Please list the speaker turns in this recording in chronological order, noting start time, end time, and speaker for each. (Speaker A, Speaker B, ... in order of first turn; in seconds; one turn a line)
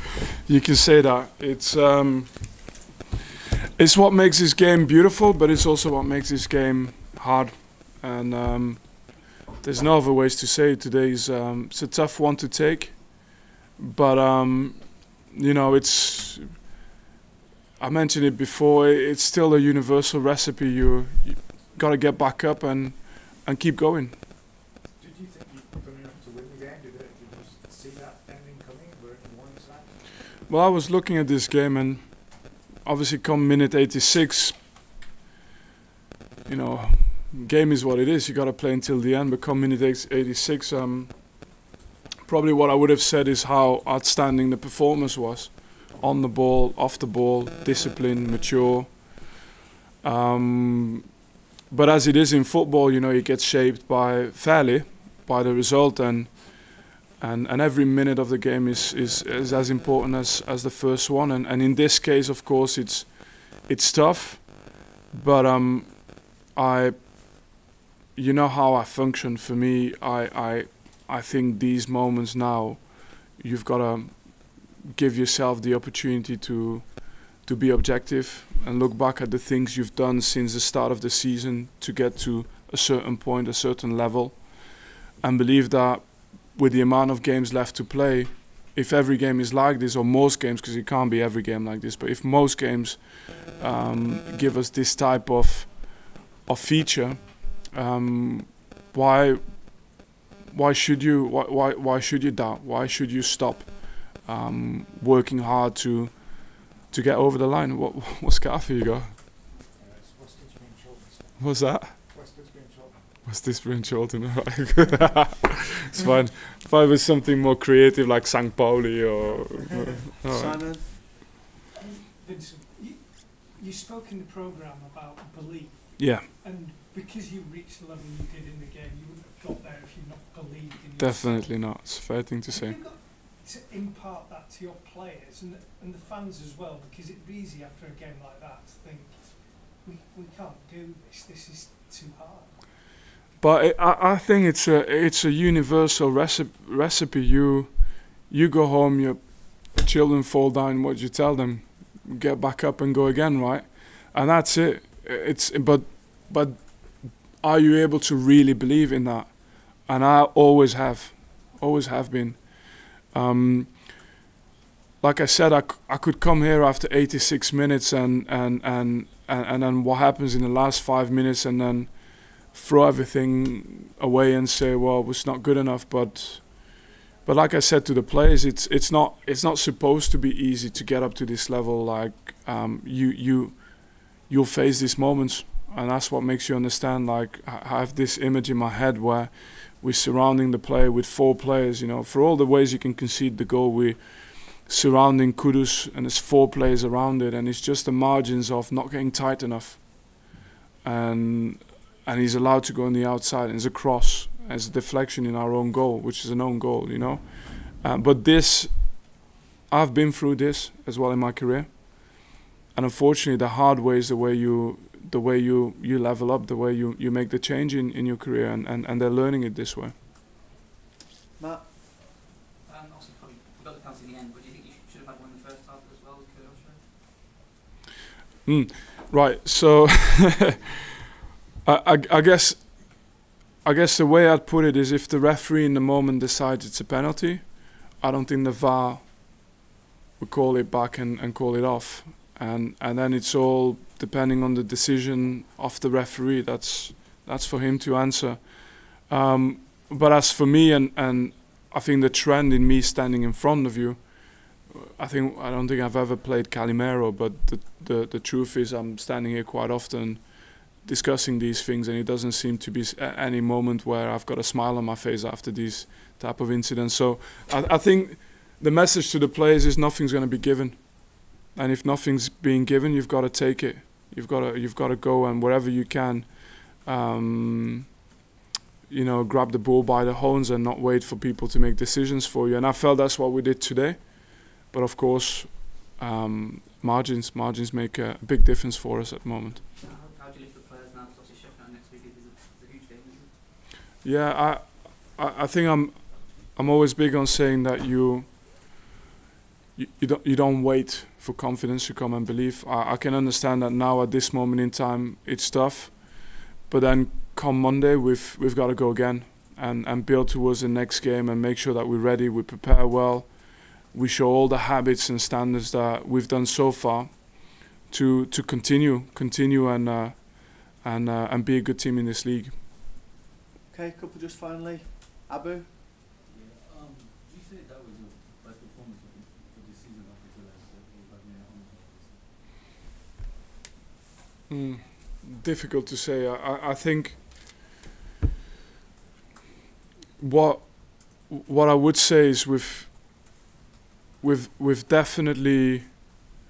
Speaker A: 0.4-2.9
Speaker A: 3.8-16.7
Speaker A: 17.8-24.2
Speaker B: 24.9-30.1
Speaker A: 30.5-34.6
Speaker A: 36.5-41.7
Speaker A: 42.2-49.4
Speaker A: 50.0-51.1
Speaker A: 51.7-67.6
Speaker A: 68.1-109.2
Speaker B: 109.7-113.2
Speaker A: 111.4-112.3
Speaker A: 113.2-120.6
Speaker C: 120.3-120.8
Speaker D: 121.8-142.7
Speaker A: 126.0-126.3
Speaker A: 131.0-132.8
Speaker A: 143.4-164.1
Speaker A: 165.0-219.9
Speaker C: 221.4-221.7
Speaker E: 222.7-226.8
Speaker A: 228.4-230.8
Speaker A: 231.6-239.6
Speaker A: 240.2-278.0
Speaker A: 278.9-289.6
Speaker E: 289.8-293.3
Speaker A: 294.0-298.8
Speaker A: 299.8-322.6
Speaker C: 323.7-325.7
Speaker F: 326.3-332.3
Speaker A: 334.5-337.2
Speaker A: 340.2-343.4
Speaker A: 344.2-346.2